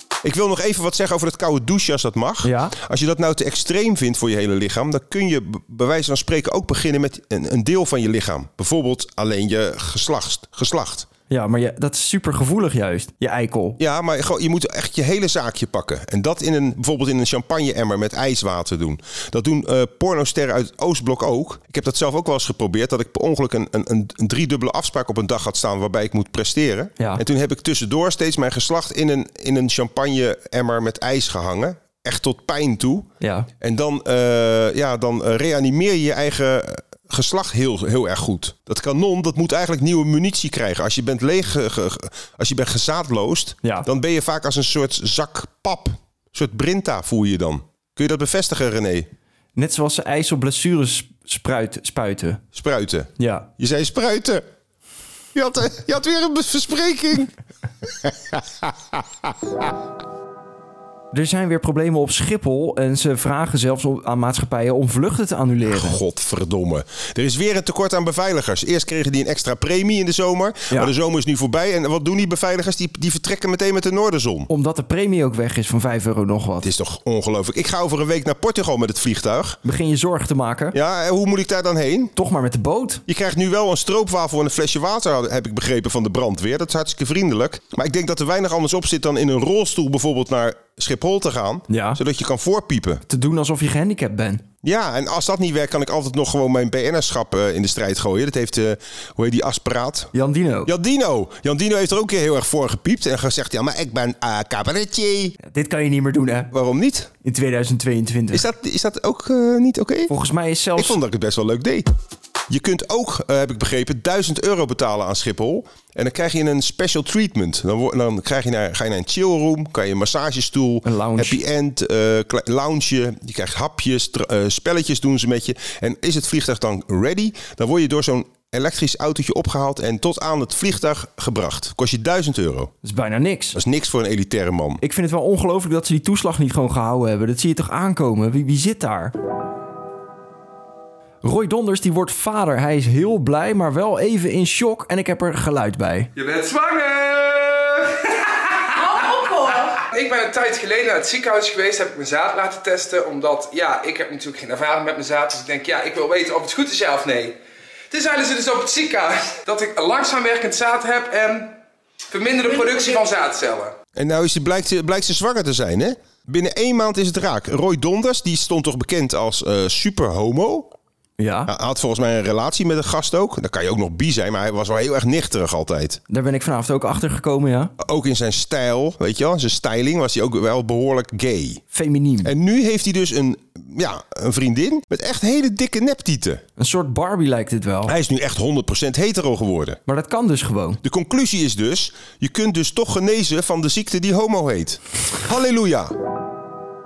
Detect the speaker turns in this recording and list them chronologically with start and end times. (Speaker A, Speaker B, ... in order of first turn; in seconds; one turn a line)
Speaker A: 0.2-11.1
Speaker B: 2.4-2.8
Speaker B: 11.3-13.8
Speaker A: 13.8-33.1
Speaker B: 33.2-33.5
Speaker A: 33.6-49.1
Speaker B: 49.6-52.4
Speaker A: 52.5-54.4
Speaker B: 53.2-53.5
Speaker A: 55.3-57.3
Speaker A: 57.8-58.7
Speaker B: 61.1-66.0
Speaker A: 65.7-74.5
Speaker B: 74.5-76.7
Speaker A: 76.6-79.6
Speaker B: 79.6-80.8
Speaker A: 80.7-82.1
Speaker B: 82.2-83.0
Speaker A: 83.1-93.0
Speaker B: 91.7-92.0
Speaker B: 93.1-94.4
Speaker A: 94.6-100.1
Speaker B: 100.1-100.7
Speaker A: 100.7-105.4
Speaker B: 105.4-106.5
Speaker A: 106.5-107.1
Speaker B: 107.2-108.5
Speaker A: 108.3-110.1
Speaker B: 110.1-111.0
Speaker A: 110.8-111.8
Speaker A: 112.5-132.7
Speaker B: 120.8-121.4
Speaker B: 132.8-133.6
Speaker A: 133.5-134.8
Speaker B: 134.8-139.1
Speaker B: 141.2-146.1
Speaker C: 146.2-157.4
Speaker C: 157.9-161.5
Speaker C: 162.1-163.7
Speaker A: 163.9-170.7
Speaker B: 171.2-171.5
Speaker A: 171.5-176.0
Speaker B: 176.1-177.7
Speaker A: 177.8-181.6
Speaker B: 181.7-182.3
Speaker A: 182.2-186.4
Speaker B: 186.6-188.0
Speaker A: 187.9-189.8
Speaker B: 189.9-190.8
Speaker A: 190.8-195.9